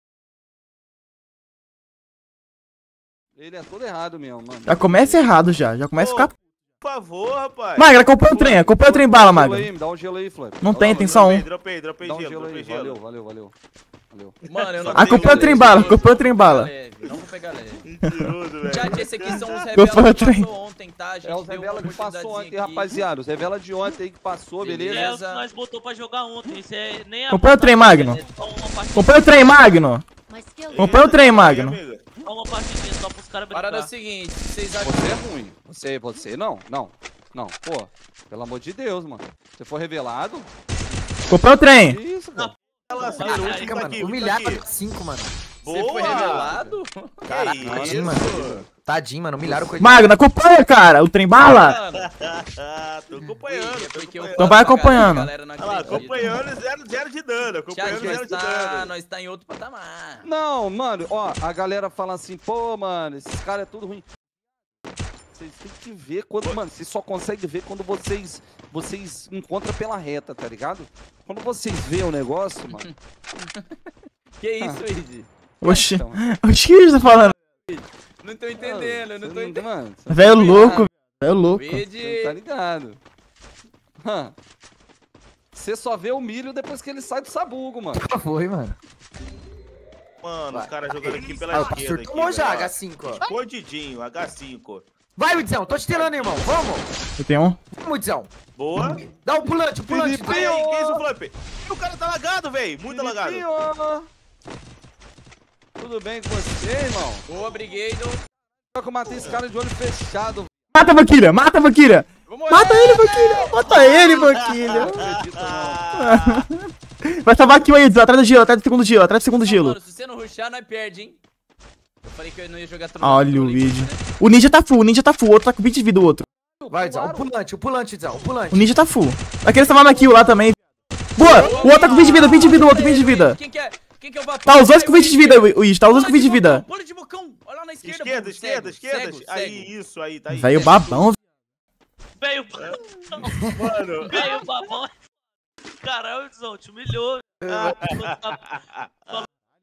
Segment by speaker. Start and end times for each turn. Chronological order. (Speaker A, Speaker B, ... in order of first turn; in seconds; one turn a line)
Speaker A: 3.4-5.3
Speaker B: 4.7-6.3
Speaker C: 6.0-6.3
Speaker C: 6.8-8.7
Speaker B: 7.8-9.7
Speaker A: 8.8-11.2
Speaker B: 10.6-11.5
Speaker C: 11.0-13.0
Speaker A: 12.0-13.5
Speaker A: 14.1-14.4
Speaker D: 14.5-17.8
Speaker C: 14.6-15.9
Speaker B: 14.9-16.7
Speaker C: 17.8-19.7
Speaker D: 18.7-23.0
Speaker B: 19.7-20.5
Speaker A: 21.2-25.1
Speaker D: 24.6-25.4
Speaker E: 24.9-29.8
Speaker B: 27.3-28.2
Speaker D: 27.9-28.2
Speaker B: 28.9-30.0
Speaker E: 30.3-31.2
Speaker C: 30.7-32.1
Speaker B: 30.8-31.8
Speaker E: 32.2-33.9
Speaker D: 33.5-35.2
Speaker A: 34.8-40.5
Speaker B: 41.3-42.0
Speaker A: 41.8-42.5
Speaker E: 42.4-44.0
Speaker C: 42.9-44.6
Speaker F: 43.0-45.3
Speaker C: 45.6-46.6
Speaker D: 45.7-48.6
Speaker A: 46.5-46.7
Speaker C: 47.3-48.6
Speaker F: 47.6-50.2
Speaker B: 49.8-51.8
Speaker D: 51.4-52.1
Speaker C: 52.0-55.0
Speaker D: 53.5-56.4
Speaker B: 54.4-55.3
Speaker C: 55.6-58.9
Speaker D: 57.7-60.3
Speaker A: 57.9-58.3
Speaker A: 60.2-64.1
Speaker A: 65.3-72.9
Speaker D: 72.7-73.8
Speaker D: 74.4-75.8
Speaker B: 75.6-77.3
Speaker A: 75.7-76.2
Speaker D: 77.7-79.7
Speaker A: 78.6-80.9
Speaker B: 80.1-81.8
Speaker D: 80.3-80.9
Speaker D: 81.5-82.4
Speaker A: 82.0-83.0
Speaker A: 84.0-84.3
Speaker A: 85.5-88.0
Speaker F: 87.9-88.8
Speaker C: 90.2-94.8
Speaker F: 90.5-93.3
Speaker F: 95.2-96.9
Speaker C: 95.9-96.4
Speaker B: 97.2-97.6
Speaker F: 97.7-100.5
Speaker C: 98.6-99.0
Speaker A: 99.9-101.1
Speaker C: 100.1-103.5
Speaker A: 102.9-104.1
Speaker A: 105.8-107.2
Speaker D: 107.3-108.2
Speaker A: 108.8-110.5
Speaker B: 110.7-115.0
Speaker D: 112.3-114.3
Speaker C: 113.7-116.4
Speaker A: 114.7-115.9
Speaker B: 116.0-119.8
Speaker D: 119.3-121.2
Speaker D: 122.0-124.0
Speaker B: 123.0-126.2
Speaker A: 126.6-127.4
Speaker F: 126.7-128.7
Speaker B: 128.5-130.6
Speaker B: 131.2-133.4
Speaker D: 131.2-139.7
Speaker B: 134.5-136.7
Speaker C: 137.8-141.0
Speaker B: 140.3-141.2
Speaker D: 140.5-141.0
Speaker E: 142.2-143.4
Speaker C: 143.4-144.4
Speaker E: 144.1-144.9
Speaker D: 144.1-144.4
Speaker E: 145.8-148.4
Speaker F: 147.4-147.8
Speaker C: 147.5-149.2